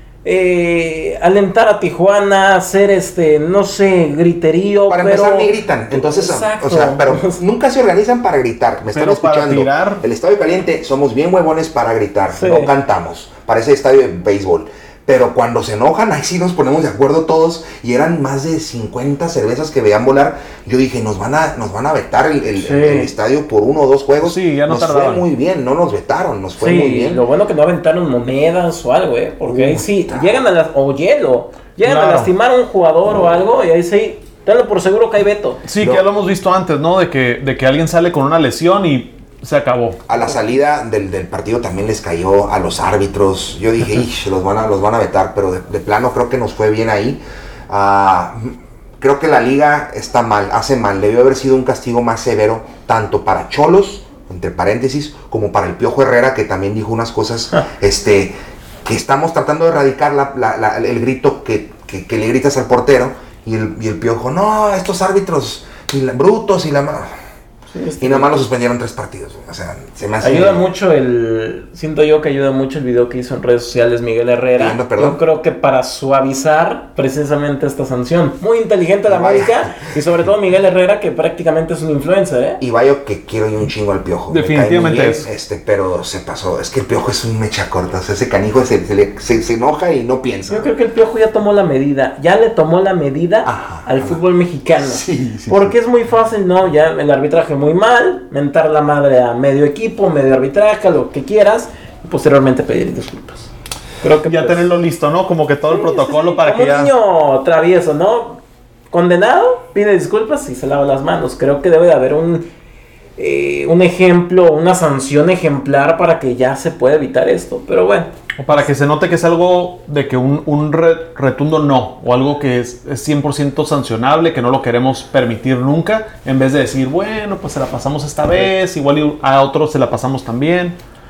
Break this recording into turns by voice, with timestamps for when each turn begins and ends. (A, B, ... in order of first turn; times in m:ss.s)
0:00.2-0:07.4 A
0:04.9-0:27.2 B
0:08.9-0:10.0 C
0:12.3-0:12.7 A
0:22.6-0:23.1 A
0:24.2-0:25.2 C
0:26.6-0:35.6 A
0:29.4-0:30.4 B
0:31.8-0:32.3 C
0:35.6-0:40.0 C
0:35.8-0:36.0 B
0:40.1-0:58.3 B
0:58.8-1:07.2 B
1:07.7-1:08.4 A
1:08.0-1:10.6 B
1:10.2-1:22.6 A
1:14.6-1:15.2 B
1:19.1-1:19.9 B
1:22.6-1:30.7 B
1:24.3-1:25.3 C
1:30.5-1:44.7 A
1:33.4-1:34.2 B
1:34.8-1:35.7 B
1:44.2-1:46.9 C
1:45.7-1:52.5 A
1:53.2-1:58.1 A
1:58.4-2:10.8 C